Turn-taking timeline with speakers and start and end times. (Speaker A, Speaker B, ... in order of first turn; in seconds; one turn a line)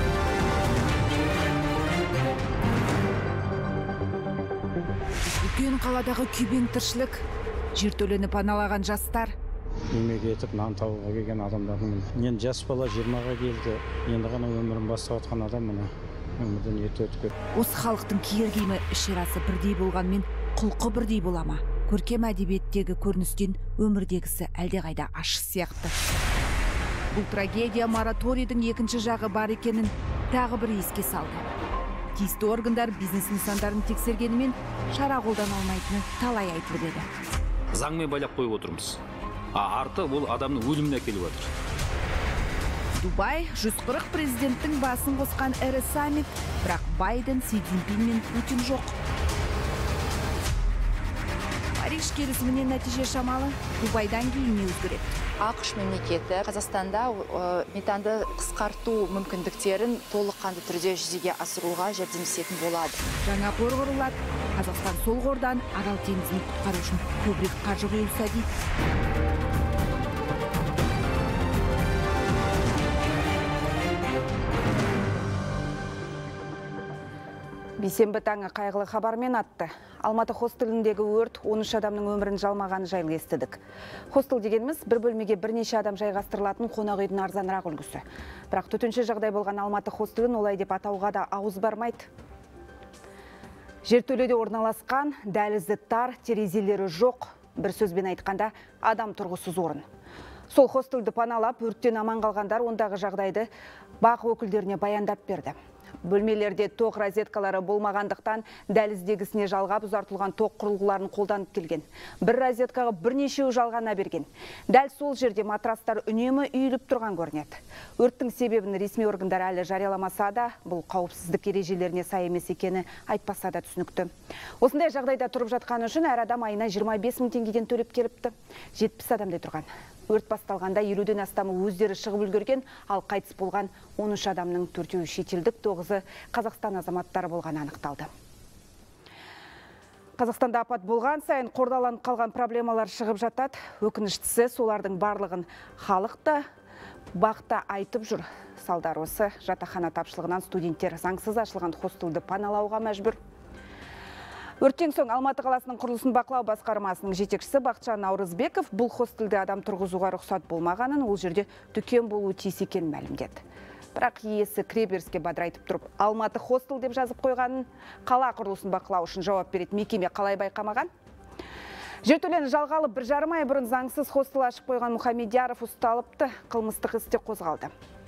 Speaker A: 5.4-9.3
Speaker B: 9.9-17.3
Speaker A: 17.5-25.9
Speaker A: 27.1-31.5
Speaker A: 32.1-37.1
Speaker C: 37.7-39.0
Speaker C: 39.5-41.5
Speaker A: 43.0-49.0
Speaker A: 51.8-55.1
Speaker D: 55.4-63.0
Speaker A: 63.2-68.5
Speaker E: 77.8-83.6
Speaker E: 84.1-92.1
Speaker E: 93.8-99.8
Speaker E: 100.5-103.5
Speaker E: 104.0-138.1
Speaker E: 140.2-146.4
Speaker E: 147.1-153.2
Speaker E: 154.6-163.4
Speaker E: 163.9-170.9
Speaker E: 172.0-177.7